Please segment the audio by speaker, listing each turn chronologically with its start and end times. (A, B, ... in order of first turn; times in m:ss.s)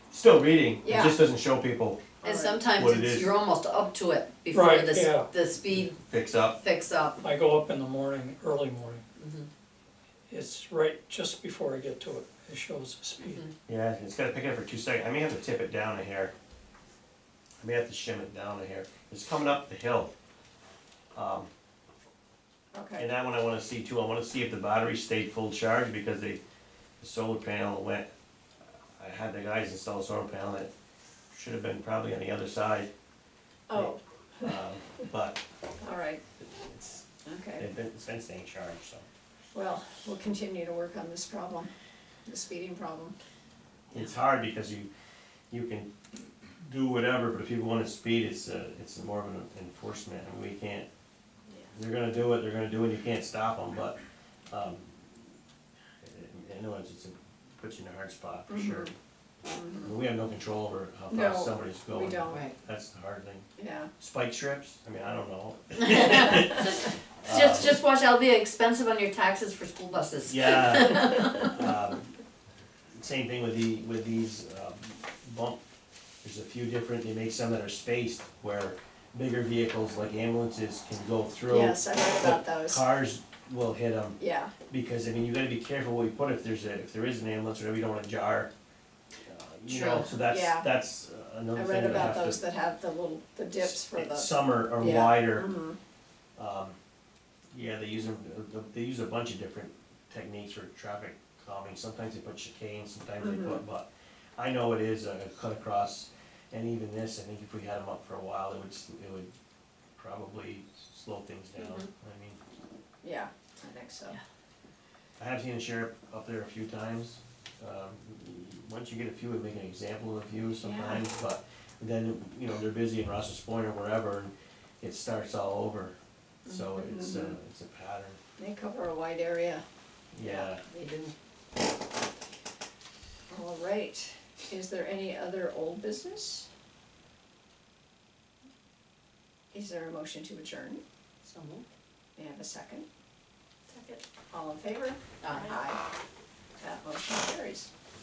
0:00.1-0:02.1 A
0:00.8-0:01.2 B
0:02.2-0:02.6 B
0:02.2-0:05.9 C
0:02.8-0:03.3 A
0:04.5-0:05.3 D
0:05.8-0:06.6 A
0:06.6-0:07.2 C
0:07.2-0:09.0 D
0:09.2-0:09.5 C
0:10.3-0:13.4 D
0:13.2-0:13.5 C
0:13.7-0:16.3 A
0:17.6-0:20.1 A
0:21.2-0:21.5 A
0:22.7-0:23.1 B
0:23.0-0:26.4 A
0:27.0-0:28.1 A
0:29.0-0:30.7 A
0:31.3-0:32.9 A
0:33.7-0:34.5 B
0:33.7-0:35.4 A
0:35.8-0:36.2 B
0:36.4-0:37.1 A
0:37.2-0:37.7 B
0:37.6-0:39.0 A
0:39.5-0:41.7 B
0:42.3-0:43.2 B
0:43.9-0:44.9 A
0:45.5-0:45.9 A
0:46.6-0:50.9 A
0:51.7-0:54.0 A
0:54.5-0:54.9 A
0:56.0-0:58.9 A
0:58.5-0:58.9 B
0:59.5-0:59.9 B
0:59.8-1:03.5 A
1:01.1-1:02.5 B
1:02.3-1:02.6 C
1:03.6-1:03.9 B
1:04.0-1:07.8 A
1:05.8-1:11.6 C
1:10.3-1:12.2 A
1:13.0-1:15.6 A
1:16.2-1:24.2 A
1:21.5-1:22.9 B
1:24.2-1:24.5 B
1:24.7-1:28.5 A
1:29.3-1:32.4 A
1:29.7-1:30.2 C
1:30.3-1:30.7 B
1:31.5-1:35.8 B
1:33.6-1:35.5 A
1:36.4-1:36.8 A
1:37.5-1:49.3 A
1:43.2-1:43.6 B
1:50.0-1:52.4 A
1:51.6-1:51.9 C
1:53.0-1:54.2 B
1:55.2-2:08.2 A
2:00.6-2:01.0 B
2:06.4-2:07.4 B
2:08.4-2:09.6 B
2:10.1-2:10.6 A
2:10.2-2:10.5 B
2:10.6-2:11.1 C
2:13.3-2:16.5 B
2:19.5-2:20.8 B
2:21.2-2:21.7 C
2:22.2-2:22.9 B
2:23.7-2:24.0 C
2:24.3-2:25.8 B
2:25.2-2:25.6 C
2:26.6-2:27.7 B